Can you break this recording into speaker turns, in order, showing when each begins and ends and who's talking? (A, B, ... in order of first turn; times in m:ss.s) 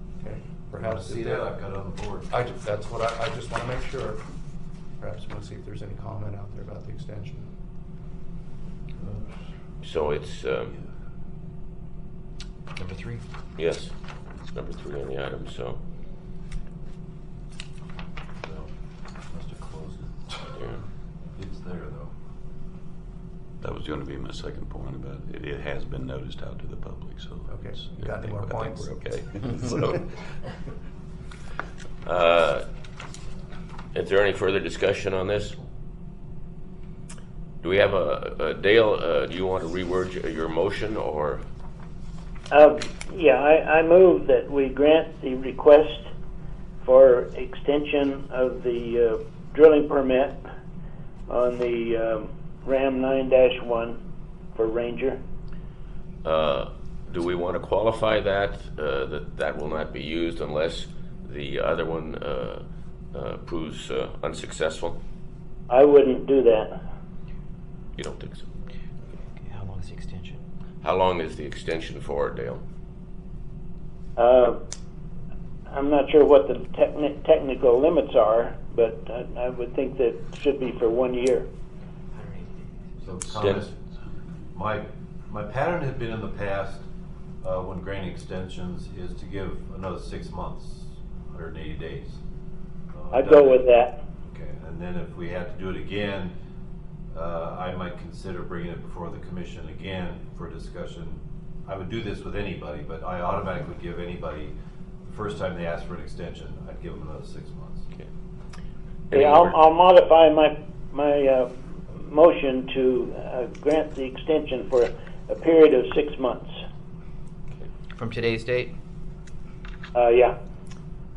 0:00.2-0:01.5 A
0:00.8-0:02.3 B
0:02.3-0:04.2 A
0:05.0-0:07.5 A
0:09.8-0:10.7 C
0:12.8-0:13.2 D
0:13.6-0:13.9 C
0:14.4-0:15.8 C
0:18.4-0:18.7 B
0:19.3-0:20.6 B
0:20.6-0:20.8 C
0:21.4-0:22.1 B
0:23.6-0:30.0 E
0:27.5-0:29.0 A
0:32.0-0:32.6 C
0:34.0-0:35.6 C
0:37.6-0:41.4 C
0:42.5-0:46.1 F
0:46.8-0:50.4 F
0:51.3-0:54.0 F
0:54.5-0:55.2 F
0:56.2-1:05.0 C
1:05.7-1:06.8 F
1:08.0-1:08.4 C
1:09.4-1:10.4 D
1:10.8-1:12.6 C
1:14.2-1:14.6 F
1:15.7-1:21.5 F
1:22.1-1:22.8 D
1:23.0-1:23.8 B
1:23.4-1:23.6 C
1:24.5-1:26.9 B
1:27.4-1:32.2 B
1:32.9-1:33.7 B
1:33.1-1:34.0 F
1:34.2-1:36.3 B
1:37.1-1:44.5 B
1:45.1-1:47.9 B
1:49.1-1:49.6 C
1:49.1-1:56.5 F
1:58.0-1:58.7 D
1:59.9-2:00.4 F